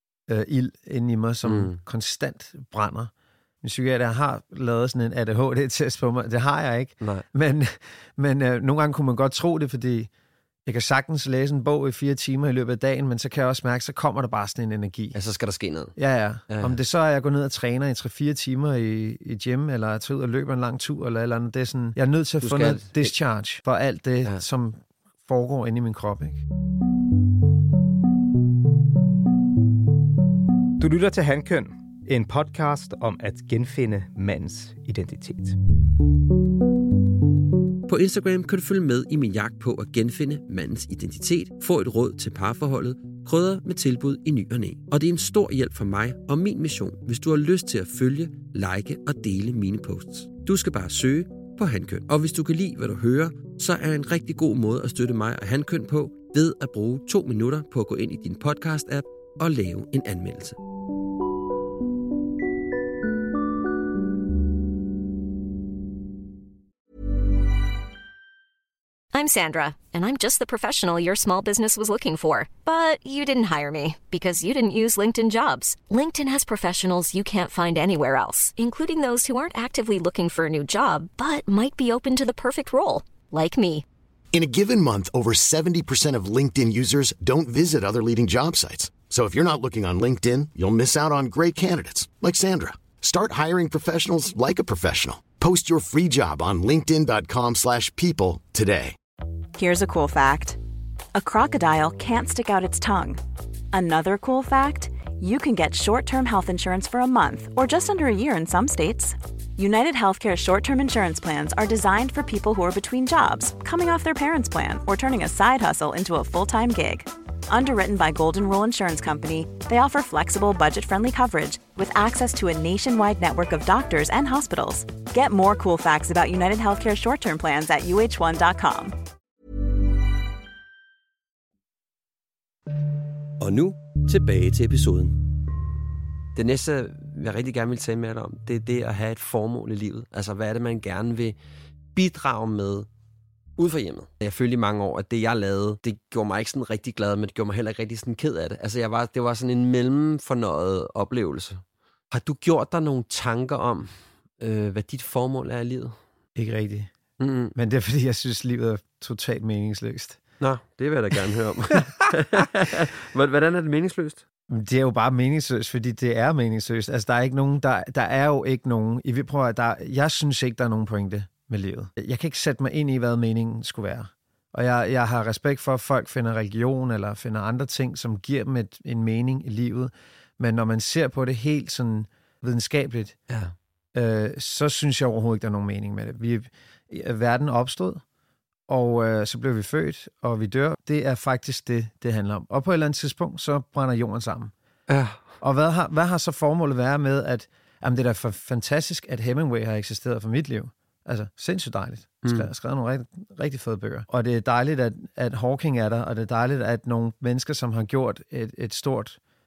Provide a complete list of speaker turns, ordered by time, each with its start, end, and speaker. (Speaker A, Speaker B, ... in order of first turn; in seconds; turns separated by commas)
Speaker A: 0.3-10.1, Speaker B: 1.4-1.8, Speaker A: 10.7-15.2, Speaker B: 15.1-15.9, Speaker A: 15.9-26.4, Speaker B: 16.5-16.8, Speaker B: 22.4-23.1, Speaker C: 30.8-35.5, Speaker B: 37.9-60.6, Speaker D: 69.1-83.8, Speaker E: 84.3-99.0, Speaker F: 99.5-100.6, Speaker F: 101.1-103.2, Speaker F: 103.7-128.9, Speaker B: 133.4-135.2, Speaker B: 136.3-141.3, Speaker B: 141.9-142.9, Speaker B: 143.6-155.9, Speaker A: 156.3-156.9, Speaker B: 157.2-157.5, Speaker A: 157.5-160.2, Speaker B: 160.4-164.2, Speaker A: 164.5-183.2, Speaker B: 183.3-183.5, Speaker A: 183.9-188.0, Speaker A: 188.7-194.5, Speaker B: 194.9-195.2, Speaker A: 195.4-209.2, Speaker B: 202.2-202.5